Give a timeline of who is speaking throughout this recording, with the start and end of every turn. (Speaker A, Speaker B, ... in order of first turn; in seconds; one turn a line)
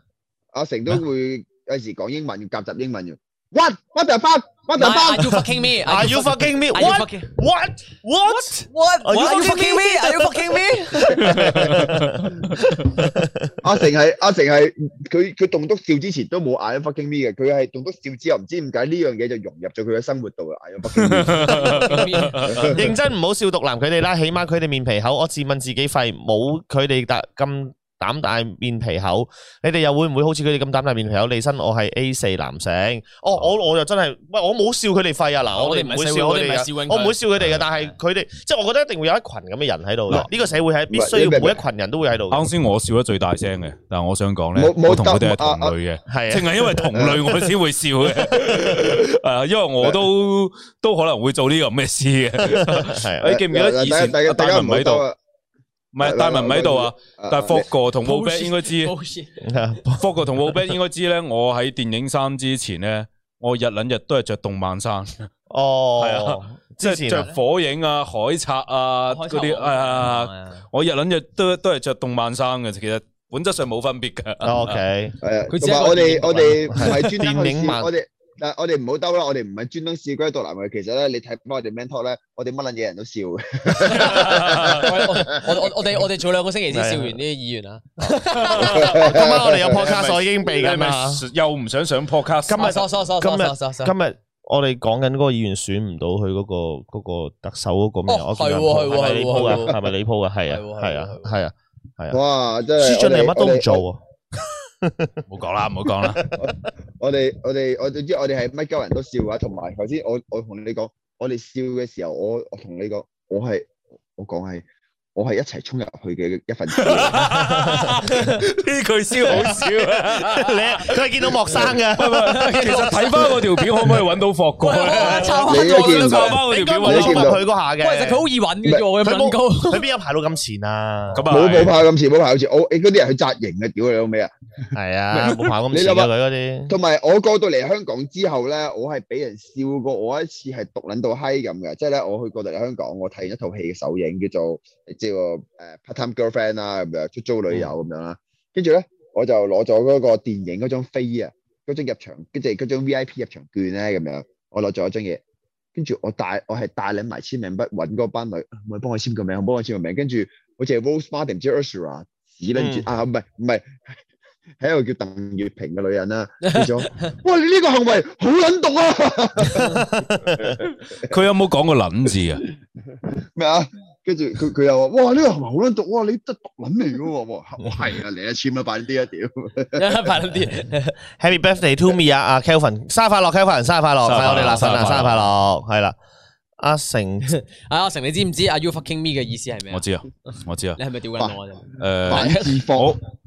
Speaker A: 0.5-5.5
Speaker B: 4.8-7.3
Speaker C: 5.8-13.5
Speaker B: 8.2-11.7
Speaker D: 11.2-13.0
Speaker A: 13.6-22.8
Speaker D: 20.9-22.7
Speaker B: 21.4-22.9
Speaker C: 22.7-42.5
Speaker B: 35.5-37.2
Speaker A: 40.9-41.6
Speaker D: 42.3-55.0
Speaker A: 44.5-45.8
Speaker C: 46.1-47.5
Speaker A: 46.9-47.2
Speaker C: 48.2-48.8
Speaker C: 52.4-53.3
Speaker A: 53.2-55.2
Speaker D: 55.9-58.9
Speaker A: 56.0-57.7
Speaker B: 58.0-59.5
Speaker C: 59.4-60.1
Speaker D: 59.9-65.3
Speaker C: 65.5-67.3
Speaker D: 66.0-74.8
Speaker B: 69.1-70.7
Speaker C: 74.4-75.2
Speaker A: 75.2-85.5
Speaker B: 75.5-77.0
Speaker C: 76.7-77.9
Speaker D: 83.8-84.9
Speaker B: 83.9-89.0
Speaker C: 86.7-87.2
Speaker C: 88.5-91.2
Speaker A: 88.6-89.8
Speaker D: 89.7-92.7
Speaker C: 92.5-102.2
Speaker B: 92.6-93.9
Speaker B: 98.1-99.8
Speaker B: 100.5-101.3
Speaker A: 102.1-103.8
Speaker C: 102.8-105.2
Speaker D: 105.3-106.3
Speaker C: 105.9-106.5
Speaker A: 106.4-117.3
Speaker D: 116.7-127.3
Speaker C: 117.3-118.0
Speaker B: 118.1-118.4
Speaker C: 119.3-122.4
Speaker B: 119.4-119.6
Speaker B: 122.2-123.6
Speaker B: 124.6-126.4
Speaker A: 125.5-127.4
Speaker C: 126.5-128.2
Speaker B: 127.8-129.8
Speaker C: 129.0-131.2
Speaker D: 131.1-131.8
Speaker A: 131.3-134.3
Speaker C: 134.8-136.8
Speaker A: 135.1-136.1
Speaker A: 136.7-155.2
Speaker A: 155.8-163.8
Speaker C: 162.6-162.9
Speaker A: 164.6-171.1
Speaker C: 169.6-170.2
Speaker D: 171.0-172.4
Speaker A: 173.0-180.1
Speaker B: 179.8-181.0
Speaker C: 181.2-186.0
Speaker D: 184.1-185.2
Speaker B: 184.2-185.1
Speaker C: 186.6-187.3
Speaker B: 187.2-189.8
Speaker D: 189.7-190.8
Speaker B: 190.8-192.6
Speaker D: 191.8-193.0
Speaker A: 192.1-192.9